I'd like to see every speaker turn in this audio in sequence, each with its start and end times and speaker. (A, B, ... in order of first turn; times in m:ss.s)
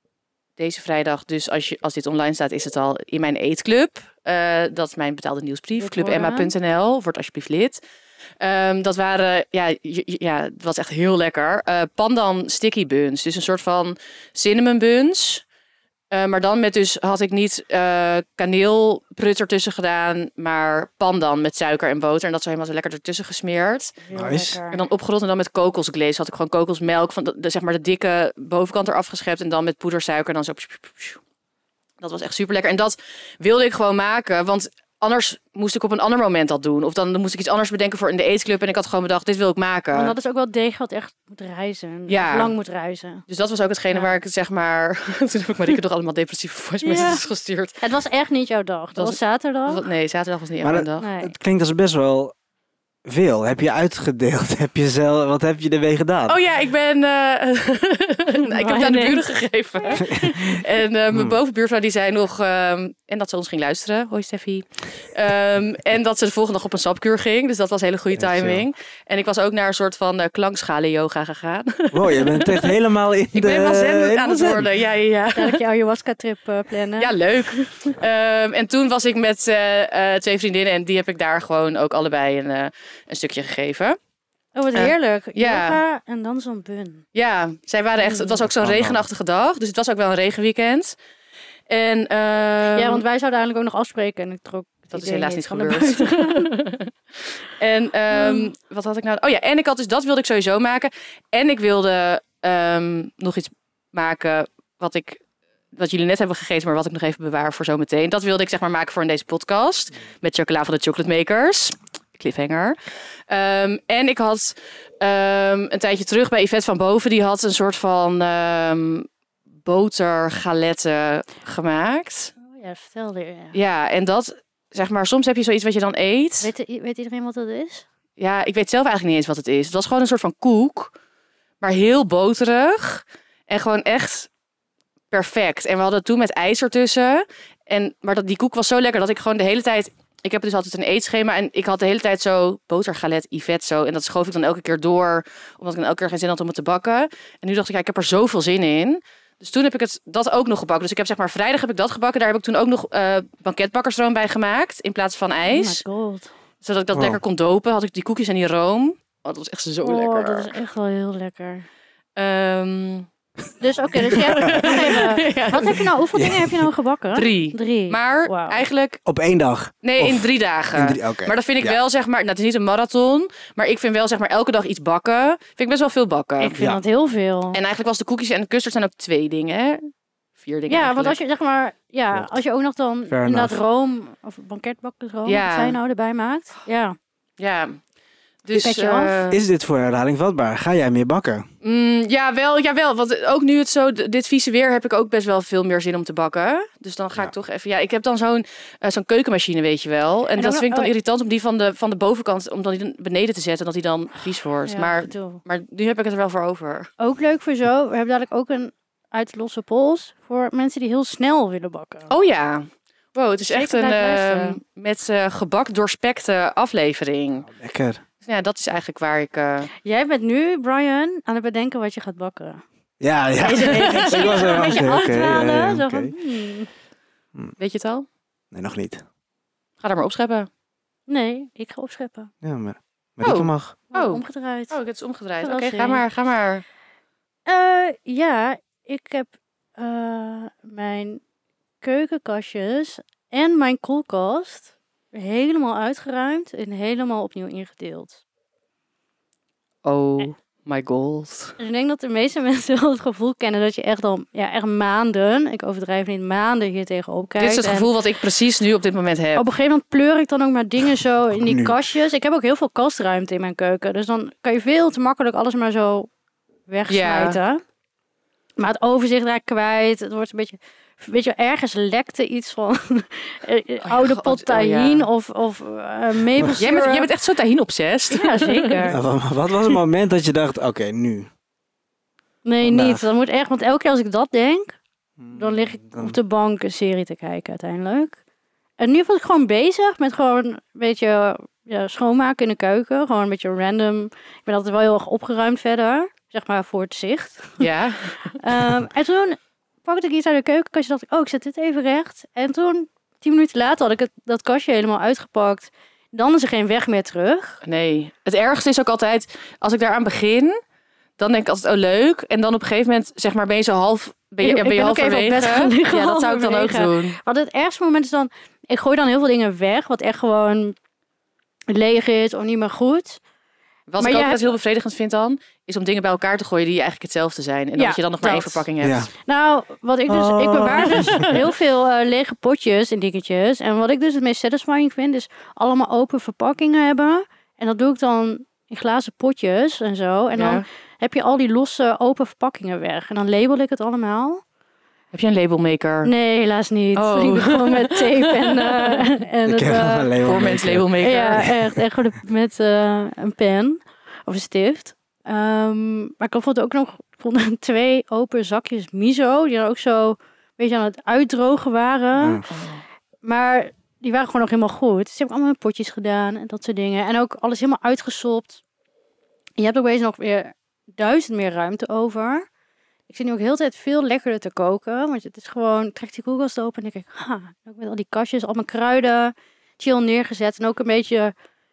0:00.6-0:07.8 A
0:05.8-0:06.5 B
0:08.4-0:15.4 A
0:16.1-0:24.0 A
0:24.0-0:24.8 B
0:24.1-0:24.6 C
0:24.7-0:31.2 A
0:32.0-0:40.1 A
0:39.9-0:43.2 B
0:42.1-0:42.5 A
0:43.3-0:47.8 A
0:46.8-0:47.2 B
0:47.8-0:49.8 B
0:49.0-0:51.1 A
0:50.6-0:52.3 C
0:51.0-0:51.3 B
0:53.0-0:56.4 C
0:56.3-1:12.7 A
0:58.3-1:00.3 B
1:00.0-1:01.4 C
1:08.1-1:08.6 C
1:11.9-1:14.7 C
1:13.3-1:15.6 A
1:15.3-1:17.7 B
1:17.0-1:24.0 A
1:24.5-1:27.0 B
1:24.7-1:25.8 A
1:27.1-1:31.0 A
1:28.0-1:28.4 B
1:28.5-1:29.0 C
1:31.7-1:33.0 A
1:32.7-1:36.5 B
1:34.9-1:45.2 A
1:38.1-1:38.5 B
1:45.7-1:52.8 A
1:53.3-1:59.1 A
1:59.6-2:02.3 A
2:02.5-2:03.5 B
2:03.5-2:06.5 A
2:06.4-2:07.8 B
2:08.2-2:10.9 A
2:11.6-2:14.3 A
2:15.1-2:35.8 A
2:35.4-2:36.3 B
2:36.6-2:40.5 A
2:36.9-2:37.2 C
2:39.8-2:41.6 B
2:42.2-2:43.1 A
2:43.6-2:48.6 B
2:44.1-2:45.8 A
2:44.2-2:44.8 C
2:46.1-2:46.7 C
2:47.1-2:49.0 A
2:49.0-2:51.8 C
2:49.8-2:56.6 A
2:56.4-2:57.6 B
2:57.5-3:01.2 A
3:00.7-3:07.0 B
3:03.1-3:03.5 C
3:05.2-3:05.8 A
3:07.4-3:07.8 A
3:08.4-3:09.4 A
3:08.5-3:09.1 B
3:09.3-3:11.4 C
3:11.6-3:26.9 A
3:20.4-3:20.9 B
3:24.6-3:25.4 B
3:27.0-3:32.1 B
3:32.1-3:37.5 A
3:33.5-3:34.6 B
3:37.4-3:38.0 C
3:38.2-3:39.7 A
3:39.8-3:42.6 B
3:43.0-3:46.1 C
3:43.4-3:46.7 B
3:43.6-3:44.8 A
3:47.6-3:48.0 A
3:48.5-3:49.0 C
3:49.8-3:50.5 A
3:51.1-3:52.3 B
3:52.4-3:53.8 C
3:53.2-3:56.6 A
3:53.9-3:54.7 B
3:55.4-3:56.0 B
3:57.5-4:01.2 B
4:01.8-4:08.2 B
4:09.8-4:11.5 A
4:11.6-4:17.9 B
4:17.4-4:19.4 A
4:19.4-4:26.1 B
4:21.3-4:21.8 C
4:26.7-4:27.6 B
4:26.9-4:27.4 A
4:28.6-4:37.1 B
4:33.8-4:35.1 A
4:36.6-4:38.9 A
4:38.1-4:39.0 B
4:38.9-4:41.3 C
4:42.4-4:44.7 B
4:42.6-4:43.0 C
4:45.2-4:46.2 C
4:45.3-4:48.2 B
4:48.8-4:57.7 B
4:57.6-4:58.4 A
4:58.3-5:07.6 B
5:07.6-5:10.6 A
5:11.2-5:17.2 A
5:14.4-5:20.8 B
5:21.7-5:23.2 B
5:23.9-5:29.1 A
5:24.0-5:24.5 B
5:27.8-5:28.6 B
5:28.8-5:29.1 C
5:29.2-5:44.4 B
5:30.1-5:31.3 C
5:30.9-5:31.3 A
5:40.4-5:40.6 A
5:45.1-5:46.1 A
5:46.0-5:50.2 B
5:47.0-5:49.0 A
5:49.4-5:51.7 C
5:50.2-5:51.5 A
5:51.0-6:02.4 B
6:02.2-6:02.4 C
6:02.5-6:02.8 A
6:03.2-6:08.6 B
6:09.6-6:12.4 B
6:13.1-6:21.3 B